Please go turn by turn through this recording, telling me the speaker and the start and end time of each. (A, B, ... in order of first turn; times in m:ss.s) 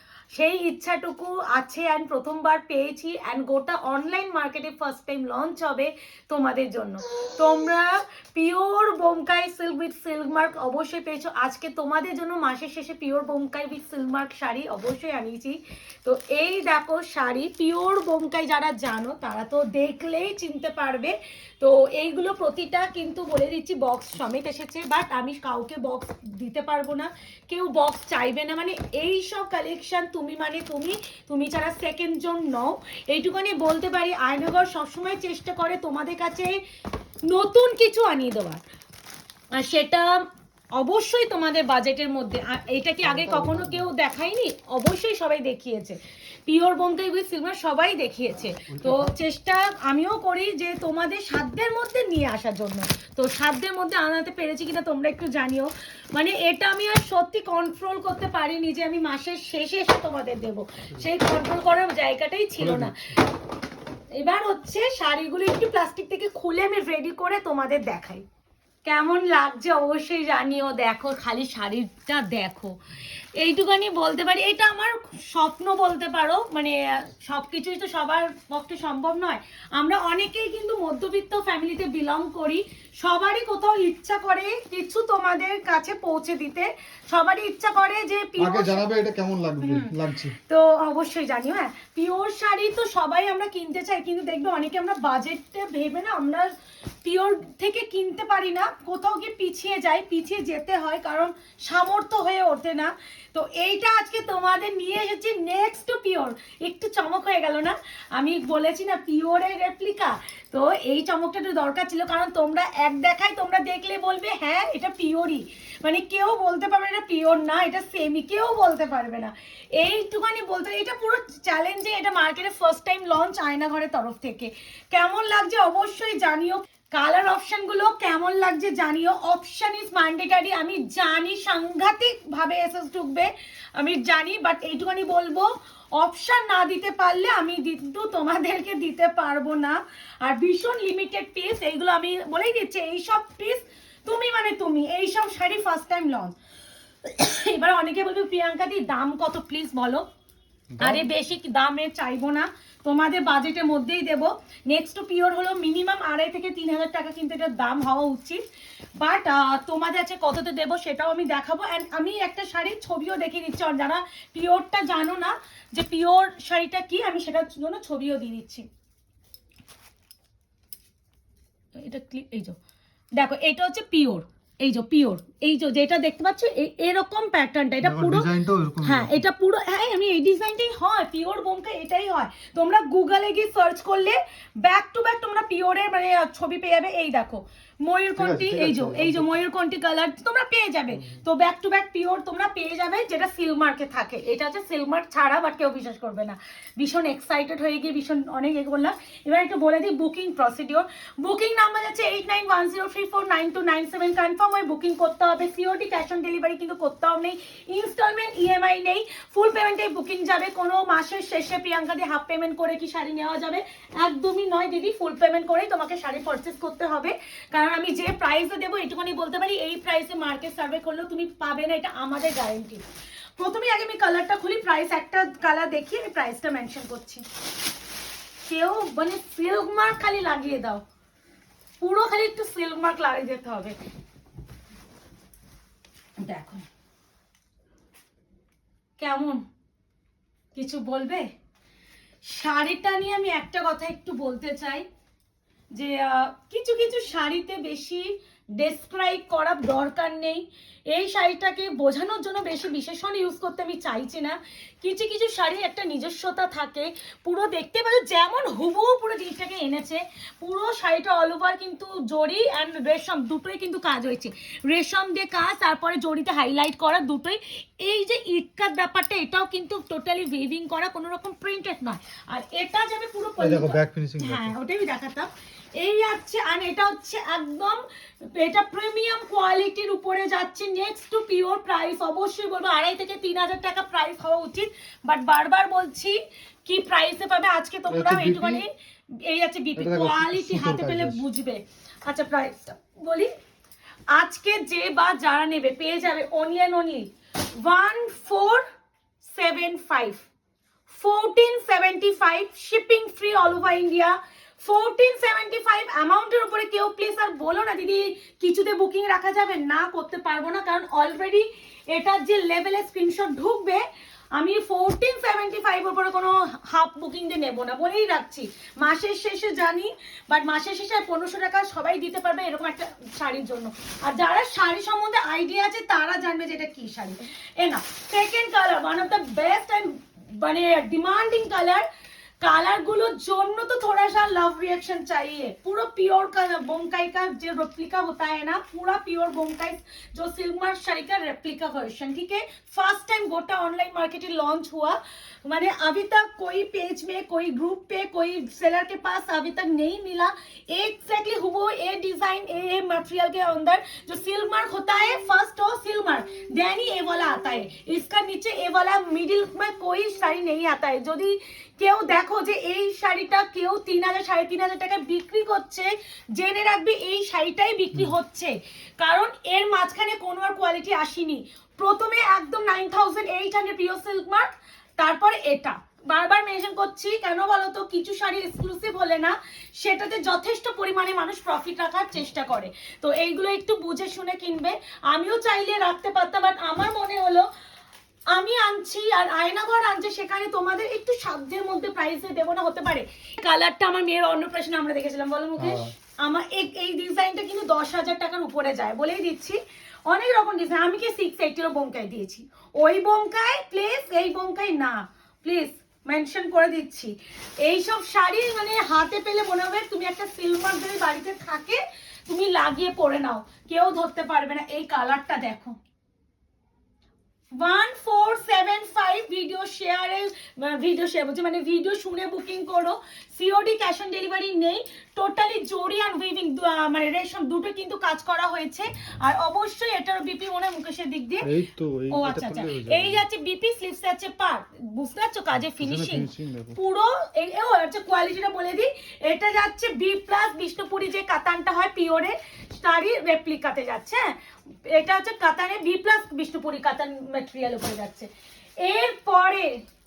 0:00.3-0:36.6 A
0:37.3-0:38.6 A
0:39.5-1:03.0 A
0:43.0-0:43.9 B
0:48.7-0:49.1 B
1:02.6-1:03.2 B
1:04.1-1:08.2 A
1:08.8-1:12.8 A
1:13.4-1:28.8 A
1:28.4-1:30.4 B
1:29.6-1:29.9 A
1:30.5-1:36.5 A
1:37.0-2:26.3 A
2:27.0-2:30.0 A
2:30.7-2:31.0 B
2:30.8-2:38.4 A
2:39.0-2:48.7 A
2:51.7-2:52.6 A
2:53.2-2:58.3 A
2:57.8-2:59.2 B
2:58.8-3:42.8 A
3:08.2-3:09.3 B
3:43.4-3:47.2 A
3:48.4-3:50.8 A
3:51.8-3:53.8 A
3:56.2-3:56.6 A
3:59.0-3:59.4 A
4:00.5-4:01.3 A
4:02.2-4:04.8 A
4:05.7-4:37.8 A
4:33.4-4:34.5 B
4:38.3-4:48.7 A
4:47.9-4:48.6 B
4:49.2-4:53.3 A
4:49.8-4:51.2 B
4:54.1-4:58.6 A
4:59.2-5:00.2 A
5:00.9-5:13.8 A
5:14.3-5:31.8 A
5:32.4-6:27.4 A
6:28.3-6:55.8 A
6:35.6-6:35.9 B
6:57.6-7:11.5 A
7:11.4-7:13.2 B
7:12.1-7:24.3 A
7:15.7-7:16.8 B
7:24.9-7:28.3 A
7:28.8-7:29.8 A